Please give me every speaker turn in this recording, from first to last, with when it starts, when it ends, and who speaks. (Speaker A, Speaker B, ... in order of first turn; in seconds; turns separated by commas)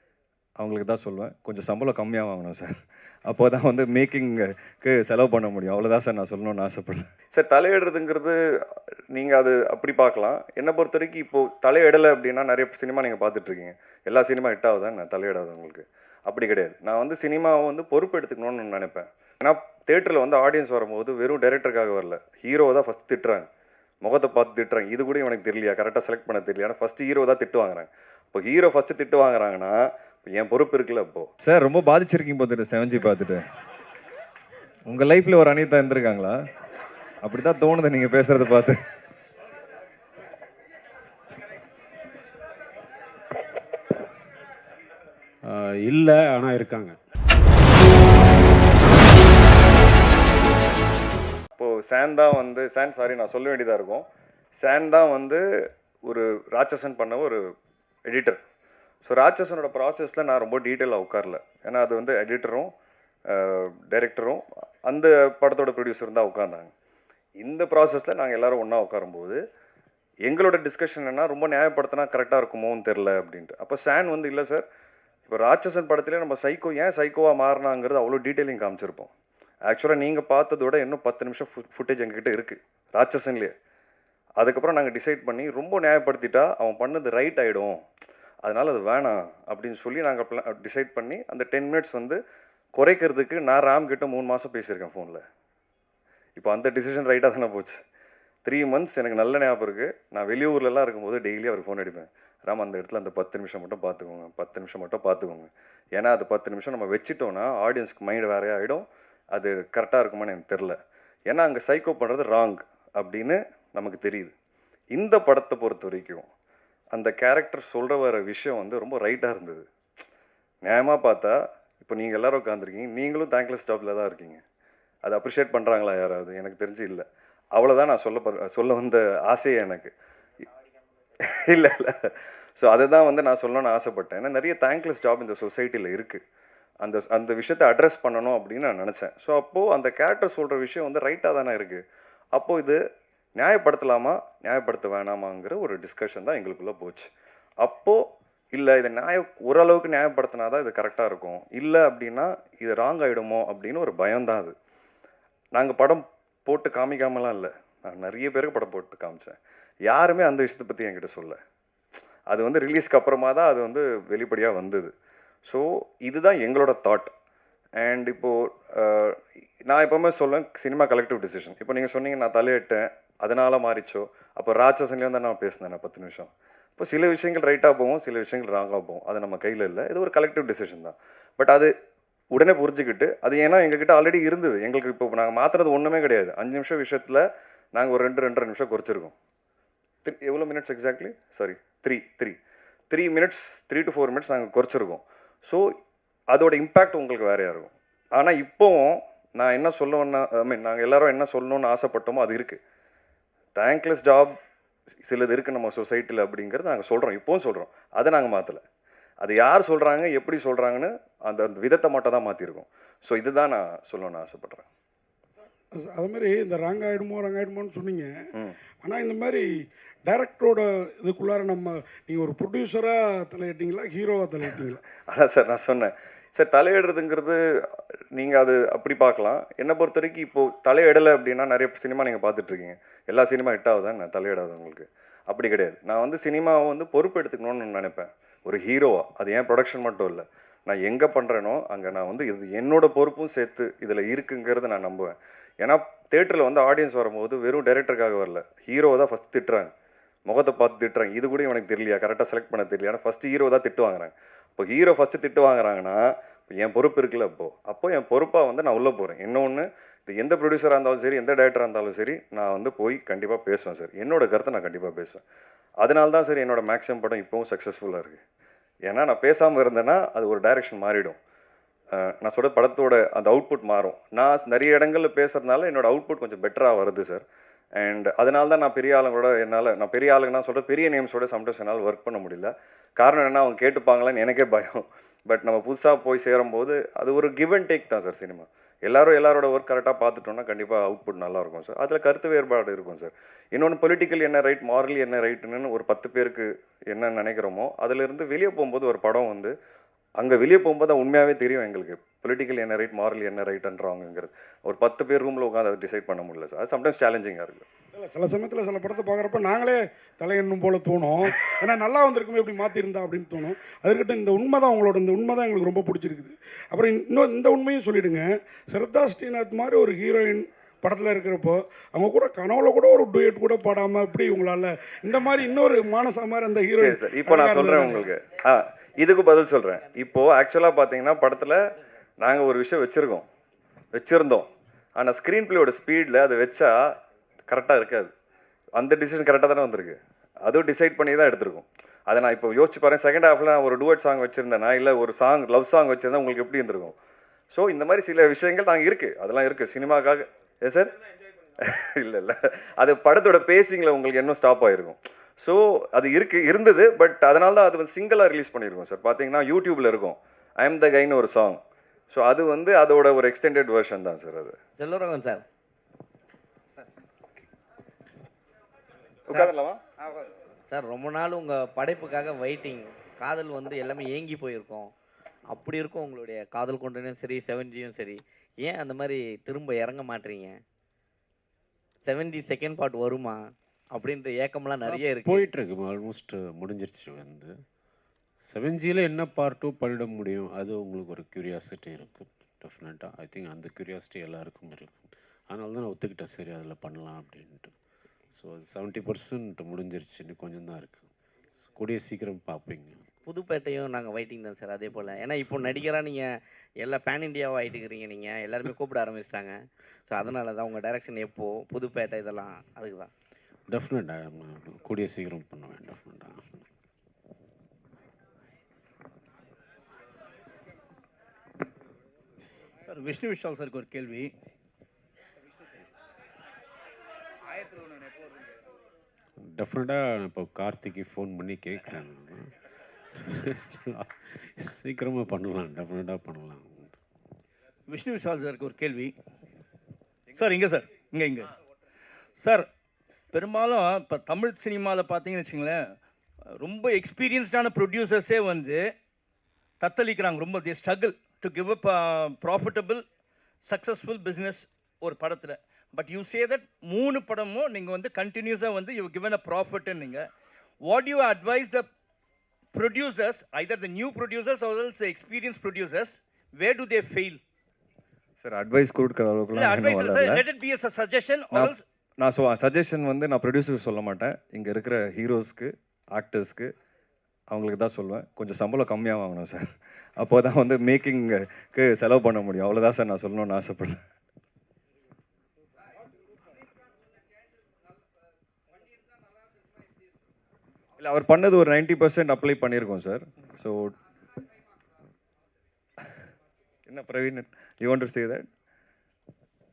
Speaker A: 0.6-8.4, Speaker A: 9.1-23.5, Speaker A: 24.0-33.4, Speaker A: 34.9-36.4, Speaker A: 37.2-38.8, Speaker B: 45.5-47.0, Speaker A: 51.6-54.1, Speaker A: 54.6-55.4, Speaker A: 56.1-57.4, Speaker A: 58.1-58.4, Speaker A: 59.0-62.7, Speaker A: 63.3-66.7, Speaker A: 67.4-69.4, Speaker A: 70.2-74.7, Speaker A: 75.3-79.1, Speaker A: 79.7-83.5, Speaker A: 84.4-87.8, Speaker A: 88.4-92.2, Speaker A: 92.8-95.2, Speaker A: 96.4-97.8, Speaker A: 98.5-110.8, Speaker A: 111.3-114.3, Speaker A: 114.9-116.3, Speaker A: 116.9-119.7, Speaker A: 120.7-124.4, Speaker A: 125.0-129.9, Speaker A: 131.3-136.2, Speaker A: 136.8-141.8, Speaker A: 142.3-142.8, Speaker A: 143.4-147.1, Speaker A: 147.6-148.0, Speaker A: 148.5-154.6, Speaker A: 155.6-159.4, Speaker A: 159.9-161.4, Speaker A: 162.3-164.9, Speaker A: 165.5-167.1, Speaker A: 167.8-181.7, Speaker A: 182.3-187.2, Speaker A: 187.8-189.1, Speaker A: 190.1-192.4, Speaker A: 192.9-195.7, Speaker A: 196.3-202.6, Speaker A: 203.6-204.3, Speaker A: 205.1-208.6, Speaker A: 209.2-214.7, Speaker C: 215.7-218.1, Speaker C: 218.8-219.4, Speaker C: 220.0-224.8, Speaker A: 225.1-249.7, Speaker A: 250.3-265.2, Speaker A: 265.8-268.2, Speaker A: 268.9-271.2, Speaker A: 272.0-277.2, Speaker A: 277.8-299.5, Speaker A: 300.2-307.7, Speaker C: 307.9-328.1, Speaker A: 326.8-331.6, Speaker A: 332.2-333.3, Speaker A: 333.9-336.9, Speaker A: 337.5-338.1, Speaker A: 338.8-347.0, Speaker A: 347.5-350.9, Speaker A: 351.6-364.6, Speaker D: 364.8-365.4, Speaker A: 369.3-369.8, Speaker D: 370.7-374.9, Speaker D: 375.5-380.6, Speaker D: 382.1-385.5, Speaker B: 384.8-387.5, Speaker B: 388.5-397.7, Speaker B: 398.4-401.1, Speaker B: 401.6-403.0, Speaker D: 403.3-413.1, Speaker B: 413.7-416.6, Speaker E: 422.9-424.3, Speaker B: 429.5-432.5, Speaker B: 433.2-437.0, Speaker E: 437.9-439.1, Speaker E: 440.4-441.5, Speaker E: 442.4-442.7, Speaker E: 443.3-446.0, Speaker E: 446.6-448.9, Speaker E: 449.8-453.1, Speaker E: 453.6-460.3, Speaker E: 460.8-461.9, Speaker E: 462.7-467.4, Speaker A: 468.4-470.4, Speaker E: 469.5-471.8, Speaker A: 471.5-476.7, Speaker A: 477.5-484.0, Speaker A: 491.0-493.9, Speaker A: 496.9-498.5